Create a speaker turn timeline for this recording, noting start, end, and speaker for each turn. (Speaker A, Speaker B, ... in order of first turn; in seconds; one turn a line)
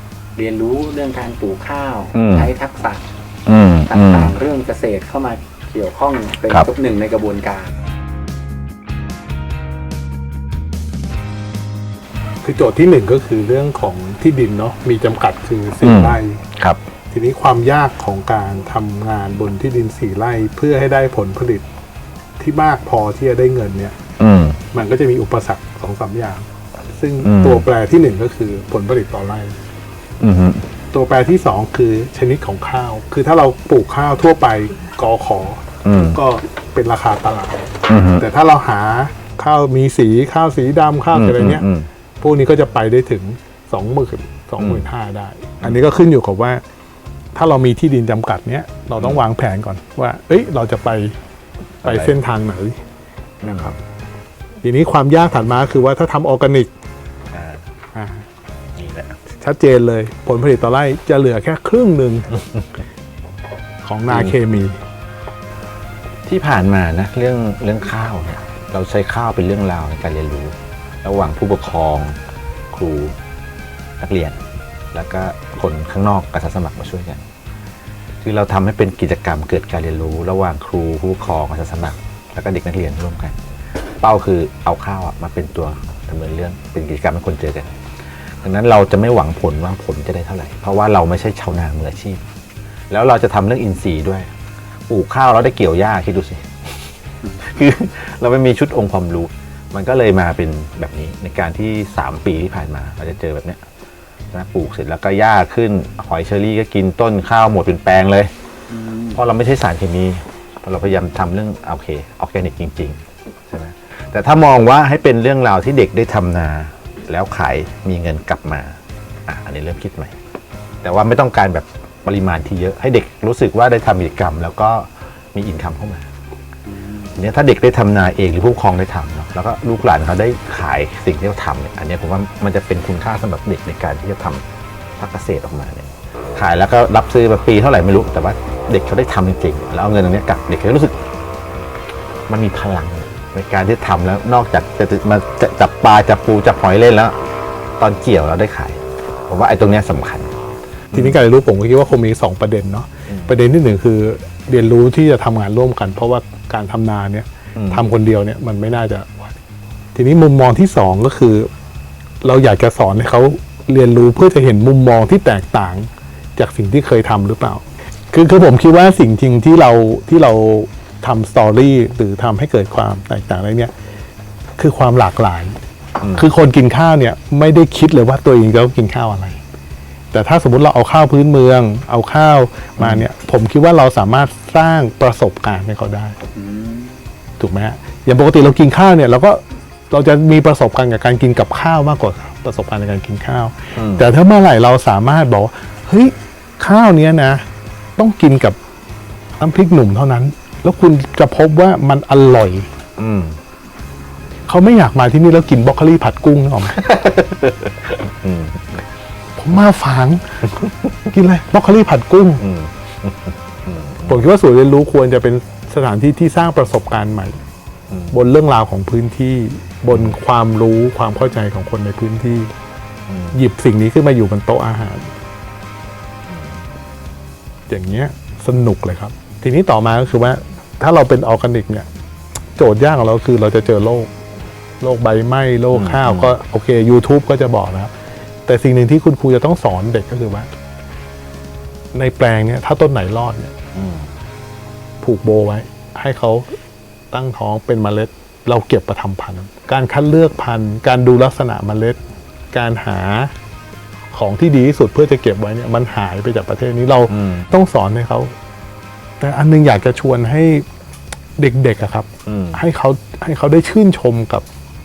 Speaker A: 0.3-3.0
Speaker B: 2.1-2.5
Speaker B: 3.5-4.3
Speaker A: 3.9-7.8
Speaker C: 12.4-16.4
Speaker B: 15.8-16.8
Speaker C: 17.1-21.6
Speaker C: 22.4-24.0
Speaker B: 24.2-24.6
Speaker C: 24.7-29.6
Speaker B: 27.2-27.7
Speaker B: 30.2-30.6
Speaker C: 30.9-41.6
Speaker B: 35.8-36.2
Speaker B: 37.9-38.2
Speaker B: 41.1-41.9
Speaker C: 42.2-46.6
Speaker B: 44.6-44.9
Speaker C: 47.3-51.2
Speaker B: 49.0-49.2
Speaker B: 51.8-52.1
Speaker C: 51.8-52.8
Speaker B: 53.4-53.7
Speaker C: 53.4-53.8
Speaker C: 54.6-56.7
Speaker B: 57.3-57.7
Speaker C: 57.9-58.2
Speaker B: 58.8-59.2
Speaker C: 59.3-62.3
Speaker C: 63.8-64.8
Speaker B: 64.1-64.3
Speaker B: 66.2-72.2
Speaker B: 72.7-73.2
Speaker B: 74.0-74.4
Speaker B: 74.9-77.2
Speaker B: 78.2-83.4
Speaker B: 84.0-87.7
Speaker B: 88.4-92.2
Speaker B: 92.9-94.3
Speaker B: 94.9-103.6
Speaker B: 104.3-108.3
Speaker A: 108.7-109.2
Speaker B: 109.1-120.1
Speaker B: 120.8-126.0
Speaker A: 126.7-127.1
Speaker B: 127.1-134.4
Speaker B: 135.0-141.0
Speaker B: 142.3-147.2
Speaker B: 147.8-150.3
Speaker B: 150.9-151.2
Speaker C: 150.9-159.4
Speaker B: 153.1-153.3
Speaker B: 157.5-157.9
Speaker C: 159.9-161.5
Speaker C: 162.2-173.7
Speaker C: 174.6-175.6
Speaker B: 176.0-176.3
Speaker C: 176.2-179.4
Speaker C: 180.1-186.2
Speaker B: 182.8-183.1
Speaker A: 186.3-187.0
Speaker C: 187.4-197.4
Speaker B: 193.7-194.1
Speaker C: 198.0-198.6
Speaker C: 199.4-202.7
Speaker B: 203.0-203.4
Speaker C: 204.5-206.8
Speaker B: 206.8-208.8
Speaker C: 209.4-212.4
Speaker B: 212.4-214.2
Speaker C: 214.1-217.4
Speaker B: 217.9-218.2
Speaker C: 218.1-222.5
Speaker B: 219.9-220.2
Speaker B: 223.1-223.4
Speaker C: 223.3-225.1
Speaker B: 226.3-226.7
Speaker C: 227.7-231.9
Speaker C: 232.6-234.1
Speaker C: 234.8-237.9
Speaker B: 235.7-236.3
Speaker C: 238.4-240.5
Speaker C: 241.9-243.5
Speaker B: 243.7-244.1
Speaker C: 245.0-246.5
Speaker C: 247.1-252.0
Speaker C: 252.5-253.3
Speaker C: 254.1-258.3
Speaker B: 257.1-257.5
Speaker C: 259.2-260.6
Speaker C: 261.4-264.4
Speaker B: 262.2-262.6